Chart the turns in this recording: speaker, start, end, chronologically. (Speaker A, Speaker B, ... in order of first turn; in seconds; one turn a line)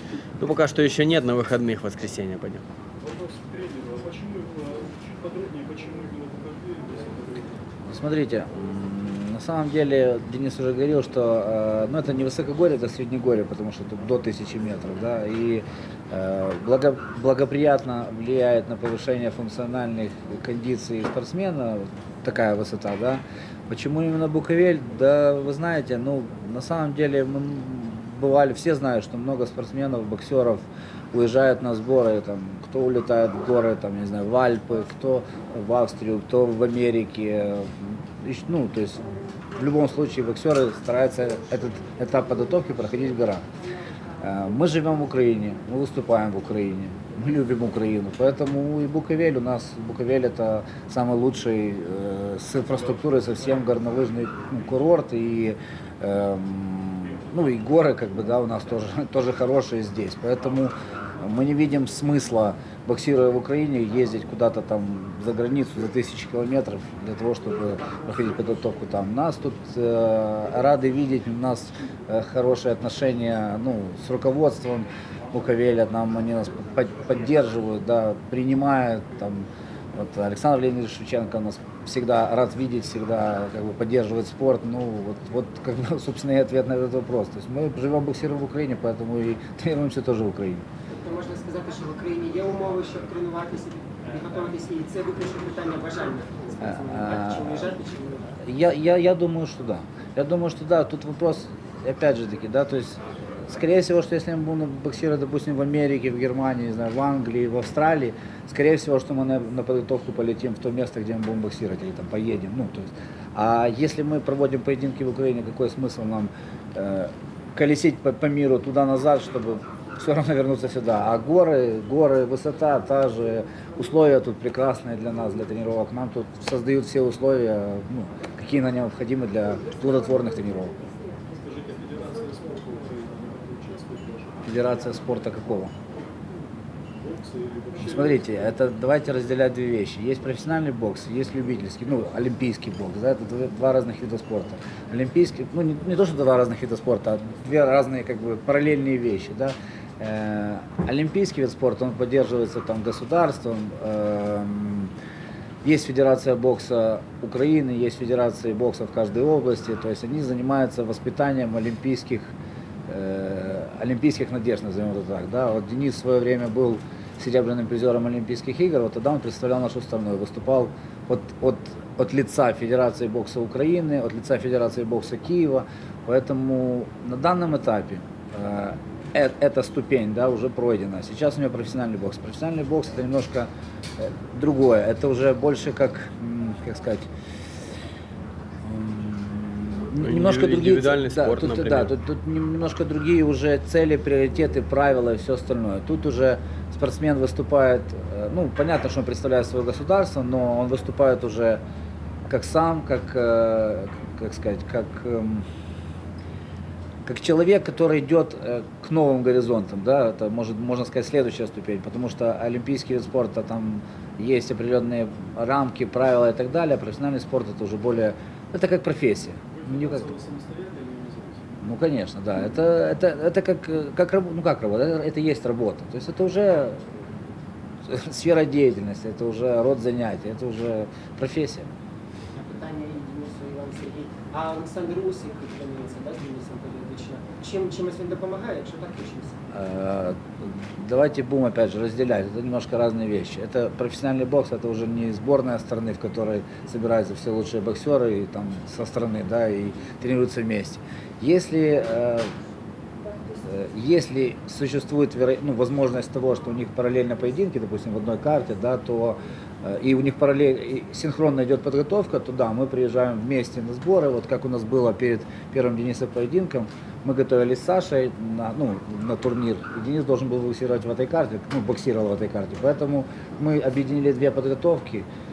Speaker A: 0.4-2.6
Speaker B: 3.0-7.6
Speaker C: 7.8-43.4
Speaker C: 44.2-90.7
Speaker D: 90.9-98.4
Speaker C: 96.6-97.6
Speaker C: 98.4-130.8
Speaker B: 131.3-134.7
Speaker C: 134.4-135.7
Speaker B: 137.0-138.3
Speaker C: 137.8-154.9
Speaker C: 155.6-162.3
Speaker C: 162.9-187.1
Speaker C: 188.6-201.6
Speaker A: 190.0-191.9
Speaker C: 202.3-205.4
Speaker C: 207.0-220.1
Speaker B: 219.5-221.4
Speaker C: 221.6-227.1
Speaker C: 227.8-231.7
Speaker D: 232.3-239.4
Speaker C: 239.5-252.3
Speaker C: 253.4-275.1